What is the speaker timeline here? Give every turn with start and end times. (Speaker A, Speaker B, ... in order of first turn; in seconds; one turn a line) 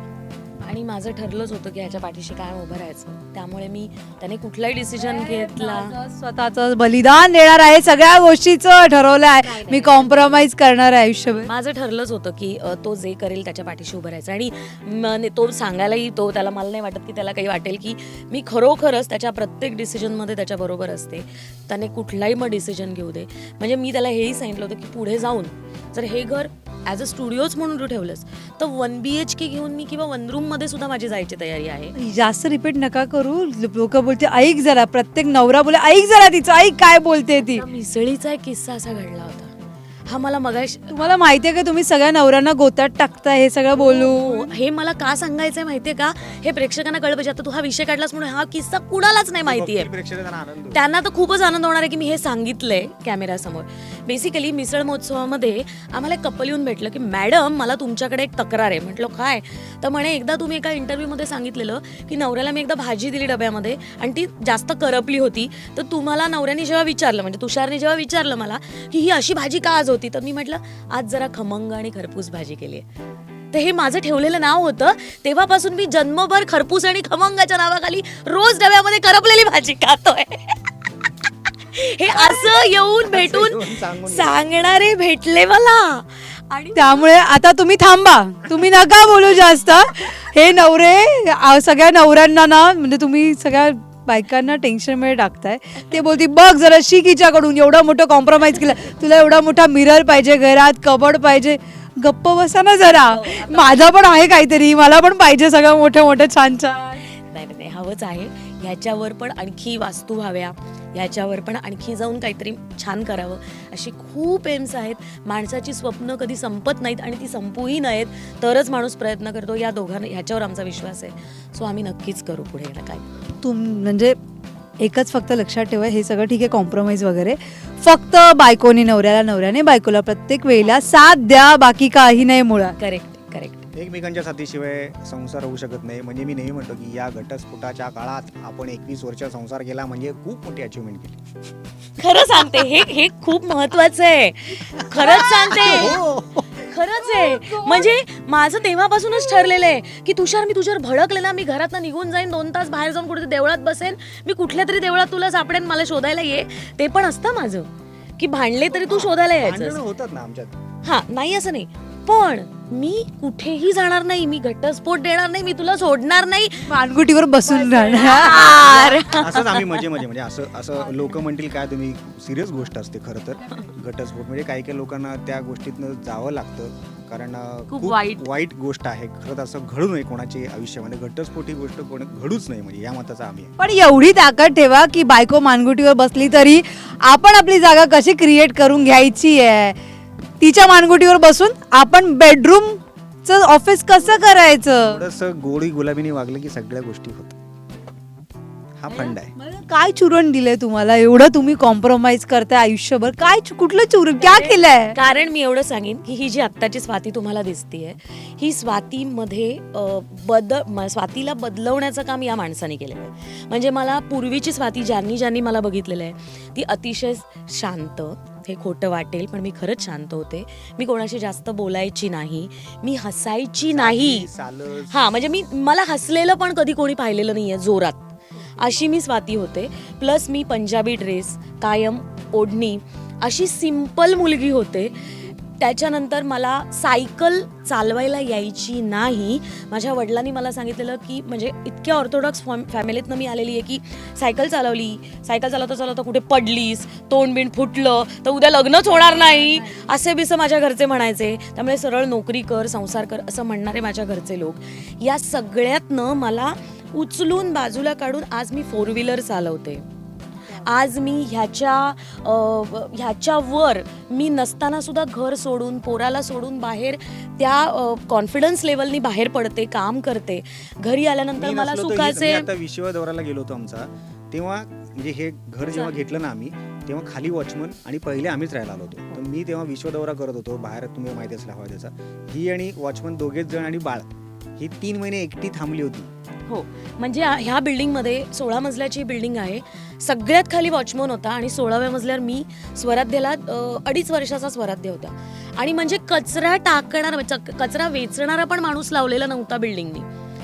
Speaker A: 0.6-6.0
Speaker B: 5.0-11.5
Speaker A: 9.4-10.4
Speaker A: 11.3-31.9
Speaker B: 31.9-37.6
Speaker A: 37.4-39.5
Speaker A: 40.1-41.1
Speaker B: 40.9-44.6
Speaker A: 43.7-49.9
Speaker C: 49.4-50.8
Speaker A: 50.7-72.8
Speaker A: 73.5-87.2
Speaker C: 83.0-84.5
Speaker B: 86.7-107.0
Speaker A: 102.8-104.0
Speaker A: 107.1-123.1
Speaker B: 123.4-124.2
Speaker B: 124.8-132.8
Speaker A: 130.6-130.9
Speaker A: 132.8-133.7
Speaker C: 133.7-141.2
Speaker A: 142.0-146.0
Speaker B: 144.9-146.0
Speaker C: 145.5-146.5
Speaker A: 146.6-159.8
Speaker B: 147.0-147.9
Speaker C: 158.8-160.6
Speaker A: 160.8-166.8
Speaker B: 166.6-169.1
Speaker A: 167.6-169.9
Speaker C: 169.1-183.5
Speaker A: 177.7-178.3
Speaker B: 183.6-189.8
Speaker B: 190.4-195.0
Speaker C: 194.0-197.3
Speaker C: 198.8-199.3
Speaker A: 198.9-199.2
Speaker B: 199.3-204.9
Speaker A: 204.2-224.3
Speaker C: 223.6-225.0
Speaker A: 224.9-259.8
Speaker B: 248.9-249.9
Speaker A: 260.5-272.5
Speaker C: 271.4-284.1
Speaker A: 275.7-276.0
Speaker C: 284.6-286.1
Speaker A: 286.5-300.1